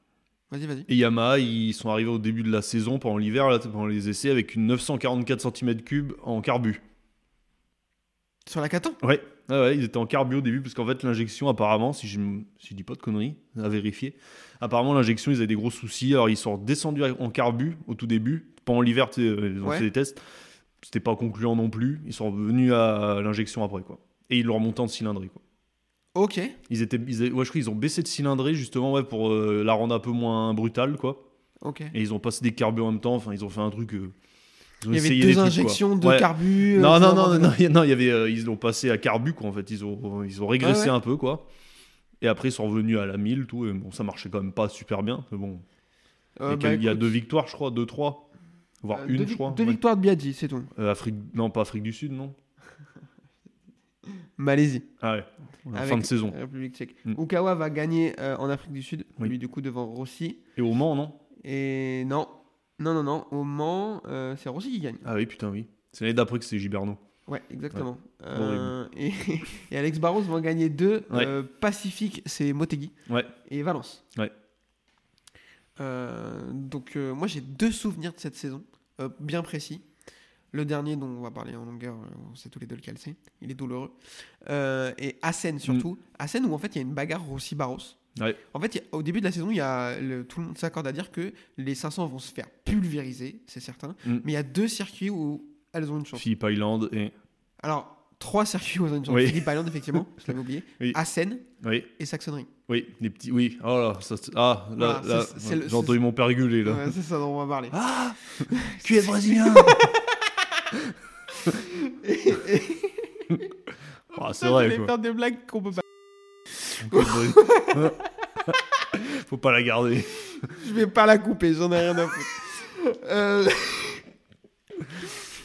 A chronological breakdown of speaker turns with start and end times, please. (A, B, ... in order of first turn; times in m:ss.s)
0:00.5-0:00.9 A
0:00.9-0:06.8 B
0:08.5-0:09.0 A
0:09.0-0:20.2 B
0:20.8-0:25.4 B
0:26.2-0:26.6 A
0:26.7-0:31.2 B
0:31.6-0:32.0 A
0:31.9-0:34.2 B
0:34.8-0:41.5 B
0:34.9-0:37.6 A
0:40.6-0:40.9 A
0:42.2-0:45.6 B
0:46.4-0:47.1 A
0:46.5-0:48.3 B
0:48.8-0:49.8 B
0:48.9-0:50.7 A
0:50.8-0:52.4 B
0:54.4-0:54.9 A
0:55.0-0:56.4 B
0:55.8-1:00.4 A
1:00.6-1:01.2 B
1:01.4-1:05.1 A
1:05.0-1:07.0 B
1:07.3-1:14.0 A
1:07.7-1:08.7 B
1:15.8-1:19.8 A
1:20.5-1:28.0 A
1:28.5-1:36.2 A
1:36.1-1:37.1 B
1:37.6-1:42.5 A
1:39.1-1:39.4 B
1:41.6-1:41.9 B
1:42.7-1:47.0 B
1:44.8-1:46.0 A
1:46.6-1:47.8 A
1:47.7-1:50.0 B
1:48.5-1:50.6 A
1:50.7-1:51.6 B
1:51.6-1:53.5 A
1:54.1-1:55.9 A
1:54.2-1:54.9 B
1:56.5-1:57.9 A
1:56.8-2:00.6 B
2:00.5-2:04.0 A